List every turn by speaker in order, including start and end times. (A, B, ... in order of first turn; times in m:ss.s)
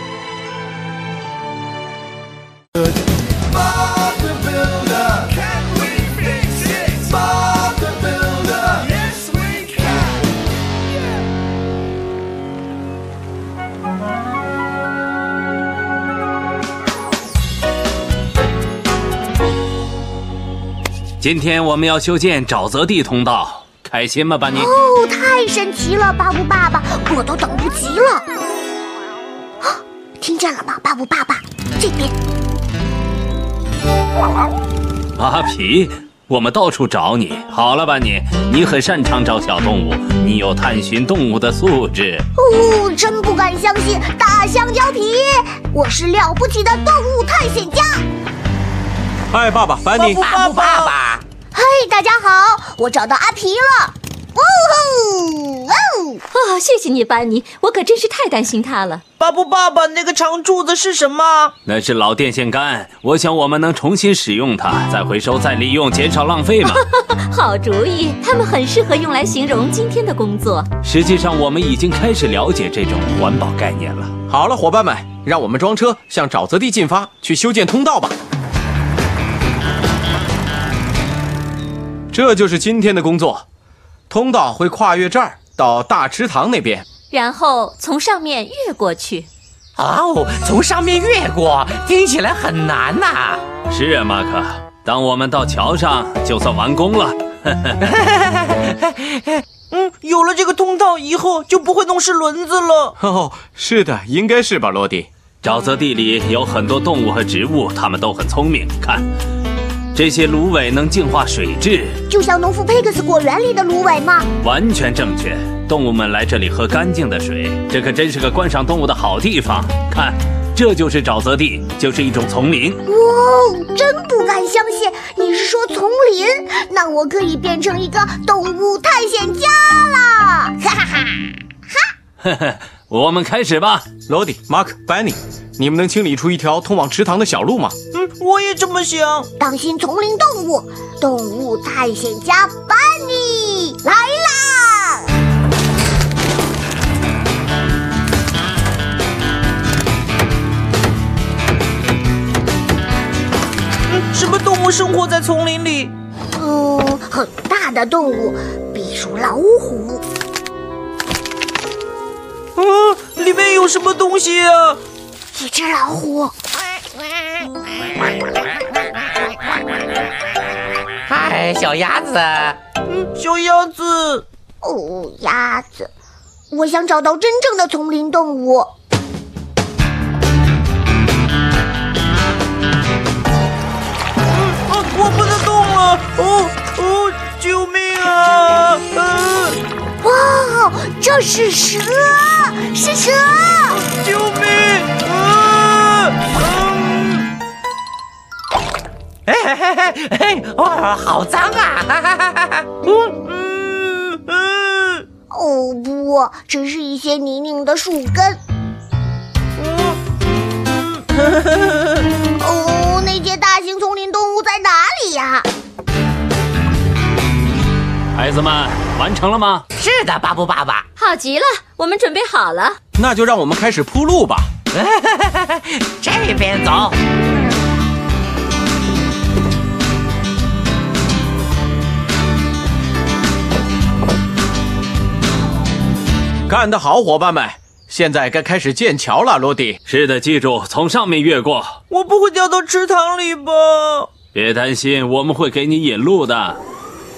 0:21.2-0:24.7 A
0:24.5-0:28.2 B
0:29.6-0:32.1 B
0:35.2-0:42.2 A
0:42.4-0:48.0 B
0:49.3-0:50.3 C
0:50.0-0:50.9 D
0:50.1-0:51.2 E
0:51.5-0:56.2 B
0:56.3-0:59.0 F
0:59.2-1:01.5 D
1:01.6-1:06.8 A
1:06.6-1:10.7 F
1:10.8-1:14.1 A
1:14.3-1:18.2 C
1:22.1-1:23.4 C
1:24.1-1:26.8 C
1:27.1-1:29.3 F
1:29.8-1:33.4 E
1:33.7-1:37.8 A
1:37.8-1:39.4 E
1:39.7-1:42.9 D
1:43.0-1:45.1 C
1:45.4-1:49.1 A
1:49.9-1:52.0 A
1:52.1-1:54.3 B
1:54.4-2:02.8 A
2:02.8-2:11.4 B
2:12.2-2:13.8 A
2:14.1-2:17.8 C
2:17.9-2:19.3 D
2:19.4-2:25.1 B
2:33.9-2:35.9 D
2:36.4-2:40.0 B
2:42.6-2:44.8 D
2:45.3-2:46.3 B
2:51.0-2:52.6 E
2:52.8-2:54.2 D
2:54.6-2:55.9 B
2:56.5-2:58.7 B
3:04.4-3:09.6 D
3:10.0-3:13.8 B
3:13.8-3:17.2 D
3:19.2-3:23.2 E
3:23.3-3:25.0 D
3:25.3-3:28.4 B
3:31.3-3:31.9 E
3:32.4-3:35.5 B
3:38.1-3:39.6 A
3:39.7-3:40.9 E
3:41.0-3:42.8 F
3:43.0-3:44.5 C
3:44.7-3:47.0 E
3:56.5-3:59.8 C
3:59.9-4:01.8 A
4:01.9-4:04.1 D
4:04.3-4:06.6 A